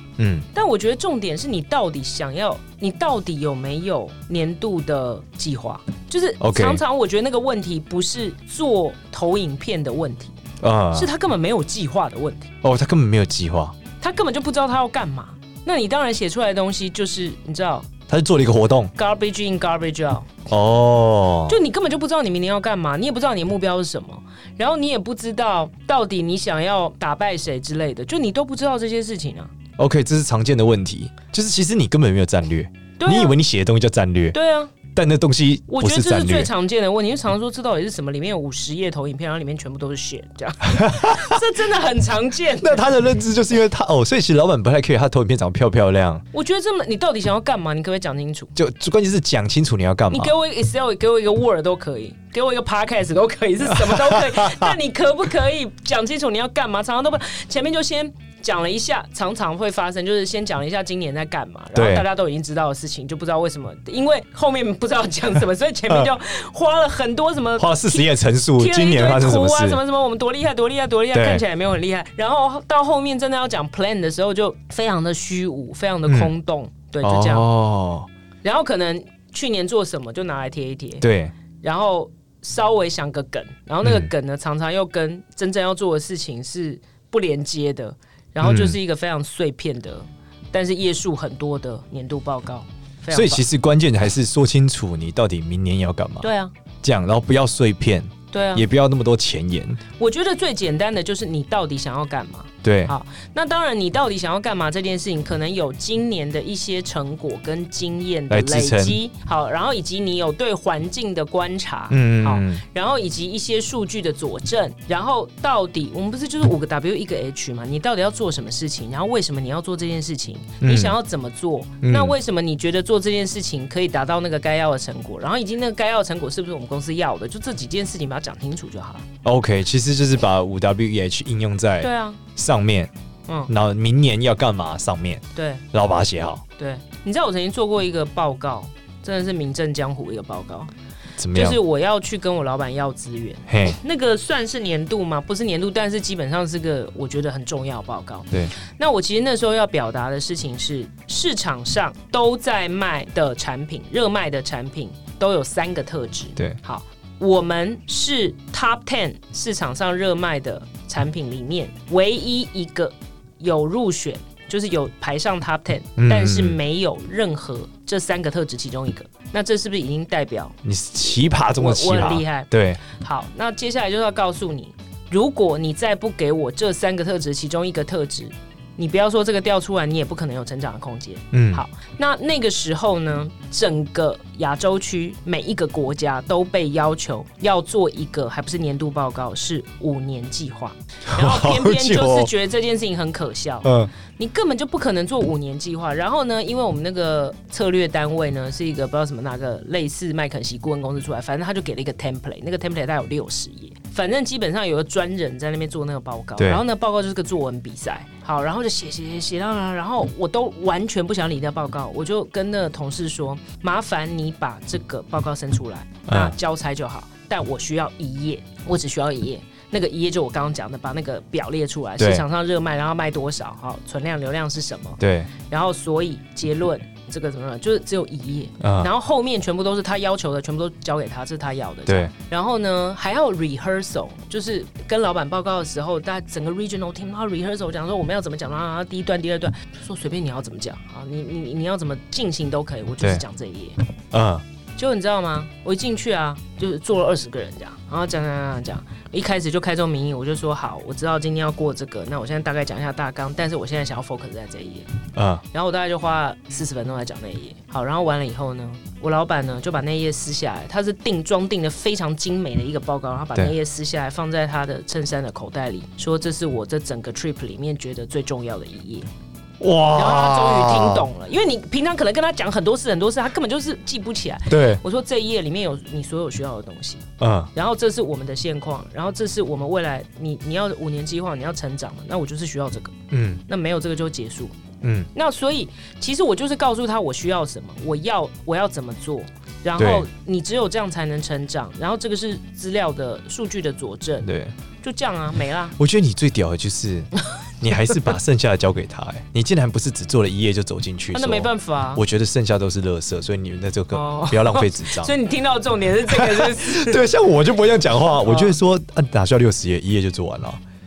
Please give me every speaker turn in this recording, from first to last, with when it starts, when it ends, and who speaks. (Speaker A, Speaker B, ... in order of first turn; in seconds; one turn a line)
Speaker A: 0.2-0.5
Speaker B: 0.5-10.4
Speaker A: 6.4-6.8
Speaker A: 10.6-11.1
Speaker B: 10.9-12.5
Speaker A: 12.6-13.8
Speaker B: 14.0-17.9
Speaker A: 18.1-18.9
Speaker B: 18.9-20.3
Speaker A: 20.5-21.6
Speaker B: 21.5-29.5
Speaker A: 29.8-34.4
Speaker B: 33.0-33.4
Speaker B: 34.3-34.7
Speaker A: 34.9-36.5
Speaker B: 35.7-42.9
Speaker A: 40.6-41.4
Speaker A: 42.6-46.2
Speaker B: 46.3-48.5
Speaker A: 48.5-50.3
Speaker B: 50.1-77.5
Speaker A: 53.7-54.8
Speaker A: 61.7-62.0
Speaker A: 67.6-69.8
Speaker A: 71.1-71.4
Speaker A: 76.1-76.3
Speaker A: 77.0-78.1
Speaker B: 78.4-81.0
Speaker A: 81.0-81.3
Speaker B: 81.6-93.5
Speaker A: 83.8-84.1
Speaker A: 88.4-88.8
Speaker A: 93.1-96.3
Speaker B: 96.2-96.5
Speaker A: 96.8-99.8
Speaker B: 98.3-98.7
Speaker B: 100.0-129.1
Speaker A: 102.6-102.9
Speaker A: 108.3-109.0
Speaker A: 111.9-112.6
Speaker A: 120.6-121.0
Speaker A: 121.8-122.2
Speaker A: 129.2-132.9
Speaker B: 131.8-132.2
Speaker A: 133.5-136.4
Speaker B: 135.3-135.7
Speaker B: 136.6-140.7
Speaker A: 141.2-141.6
Speaker B: 141.3-170.6
Speaker A: 143.5-143.8
Speaker A: 166.0-166.6
Speaker A: 170.6-172.8
Speaker B: 171.5-243.8
Speaker A: 181.3-181.6
Speaker A: 191.1-192.3
Speaker A: 193.6-193.9
Speaker A: 206.4-206.6
Speaker A: 216.1-216.3
Speaker A: 222.0-222.2
Speaker A: 225.0-225.3
Speaker A: 228.6-228.9
Speaker A: 231.9-232.1
Speaker A: 244.1-244.4
Speaker B: 244.8-254.9
Speaker A: 255.1-255.4
Speaker B: 255.5-269.1
Speaker A: 269.6-271.1
Speaker B: 269.9-282.9
Speaker A: 274.5-274.8
Speaker A: 277.2-277.5
Speaker A: 283.1-283.4
Speaker B: 283.5-284.5
Speaker A: 284.8-285.1
Speaker B: 285.1-294.3
Speaker A: 289.8-290.1
Speaker A: 294.2-294.5
Speaker B: 294.8-295.8
Speaker A: 295.8-305.1
Speaker B: 301.1-302.0
Speaker B: 303.9-307.0
Speaker A: 306.1-310.6
Speaker B: 308.2-308.6